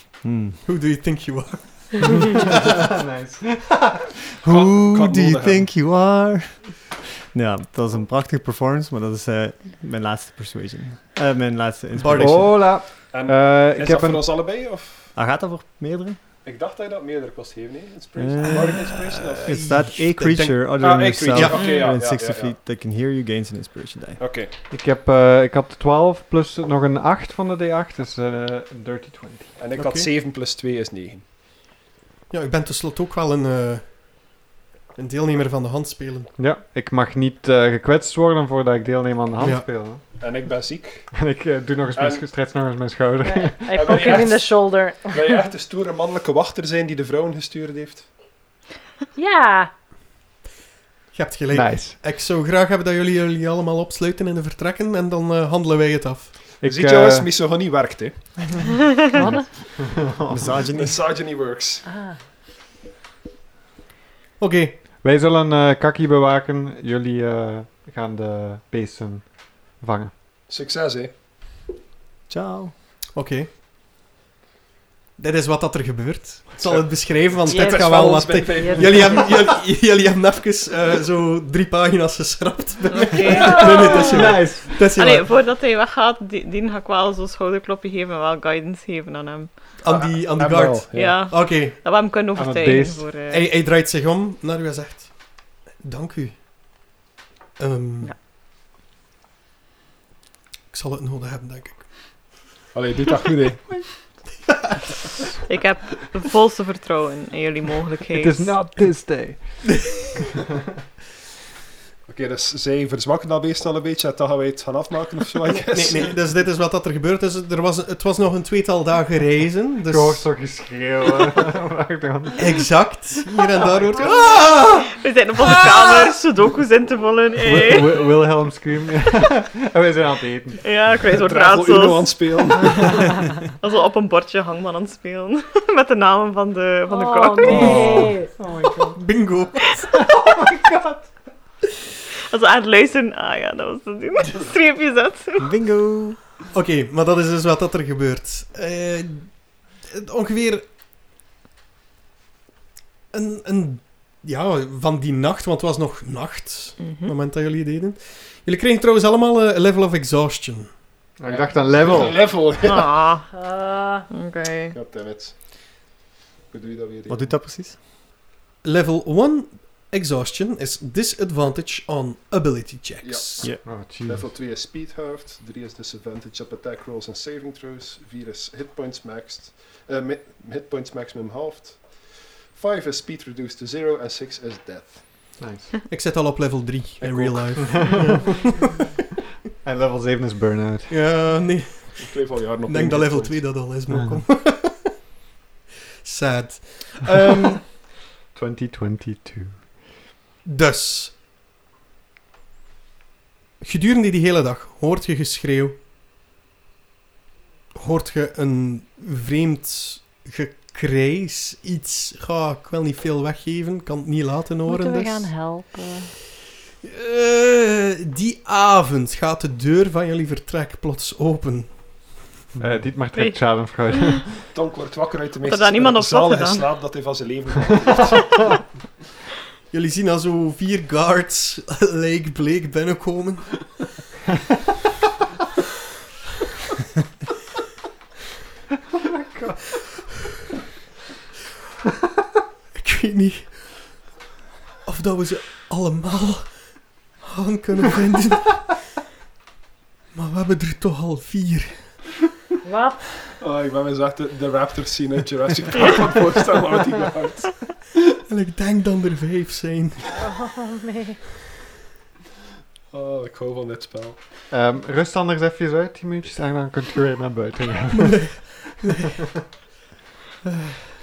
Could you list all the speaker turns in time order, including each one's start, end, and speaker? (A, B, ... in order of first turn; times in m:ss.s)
0:00.2-0:00.6 A
0:00.6-0:02.8 B
0:02.6-0:03.9 C
0:04.4-0:05.7 D
0:04.4-0:12.6 A
0:12.0-0:12.4 B
0:12.2-0:14.2 C
0:13.1-0:15.1 D
0:15.1-0:16.2 A
0:16.4-0:19.7 D
0:18.2-0:24.2 A
0:18.5-0:20.7 B
0:20.8-0:22.6 D
0:21.3-0:21.6 B
0:21.6-0:21.9 E
0:24.2-0:24.5 D
0:24.7-0:29.6 C
0:29.6-0:31.3 D
0:29.7-0:30.1 B
0:32.3-0:34.4 B
0:35.0-0:36.3 B
0:36.4-0:40.1 C
0:39.4-0:40.0 B
0:40.1-0:41.2 D
0:41.1-0:44.1 C
0:41.9-0:42.3 D
0:43.2-0:45.1 F
0:43.7-0:48.1 D
0:49.1-0:49.7 F
0:51.1-0:56.4 B
0:51.5-0:52.0 C
0:56.6-0:57.3 C
0:56.6-0:58.6 D
0:59.2-0:59.5 F
1:00.3-1:01.1 A
1:00.7-1:01.8 D
1:01.8-1:02.2 F
1:04.4-1:04.8 B
1:05.0-1:10.1 C
1:10.5-1:11.1 D
1:12.3-1:12.7 A
1:13.2-1:13.5 B
1:15.2-1:25.3 B
1:16.6-1:19.6 D
1:17.5-1:19.2 F
1:22.9-1:29.8 E
1:24.0-1:24.8 C
1:29.8-1:32.0 B
1:29.9-1:31.3 D
1:30.9-1:33.5 E
1:32.4-1:33.1 C
1:33.3-1:36.7 B
1:37.6-1:38.1 B
1:40.7-1:42.4 B
1:42.7-1:43.7 D
1:44.4-1:45.0 B
1:45.4-1:48.6 E
1:48.1-1:50.0 C
1:52.1-1:56.1 D
1:55.6-2:00.2 B
1:59.9-2:02.6 C
2:02.4-2:04.9 B
2:03.6-2:08.1 E
2:07.4-2:10.6 C
2:10.6-2:12.7 E
2:11.2-2:13.0 D
2:13.5-2:17.9 E
2:16.9-2:19.0 F
2:17.5-2:18.2 C
2:17.5-2:18.1 B
2:19.0-2:19.8 B
2:20.2-2:21.0 C
2:22.3-2:25.5 E
2:25.4-2:26.2 A
2:26.5-2:30.6 B
2:33.1-2:40.8 B
2:36.8-2:37.1 E
2:41.2-2:42.4 C
2:41.3-2:43.0 D
2:42.6-2:43.3 E
2:43.3-2:44.1 F
2:44.1-2:44.8 E
2:44.7-2:45.6 D
2:46.5-2:47.4 D
2:47.1-2:47.8 A
2:48.6-2:53.6 B
2:53.0-3:05.3 D
2:53.6-2:54.3 C
3:05.4-3:05.7 C
3:05.9-3:08.9 B
3:07.0-3:07.9 D
3:07.6-3:08.2 C
3:09.6-3:11.0 C
3:10.9-3:15.0 B
3:12.0-3:13.6 D
3:13.9-3:14.2 C
3:16.0-3:17.6 B
3:18.3-3:19.9 C
3:20.4-3:21.1 B
3:23.6-3:25.8 B
3:27.8-3:35.4 B
3:34.7-3:36.1 F
3:36.8-3:42.2 B
3:42.6-3:44.4 C
3:43.1-3:44.2 E
3:44.5-3:48.4 D
3:45.4-3:46.7 E
3:49.7-3:53.9 B
3:59.1-3:59.8 C
4:02.8-4:04.0 B
4:04.8-4:08.8 B
4:10.1-4:12.0 B
4:12.6-4:13.0 F
4:13.4-4:17.5 D
4:18.0-4:20.1 B
4:20.1-4:21.2 F
4:22.9-4:24.2 D
4:24.5-4:28.7 C
4:28.0-4:29.1 B
4:30.4-4:30.8 B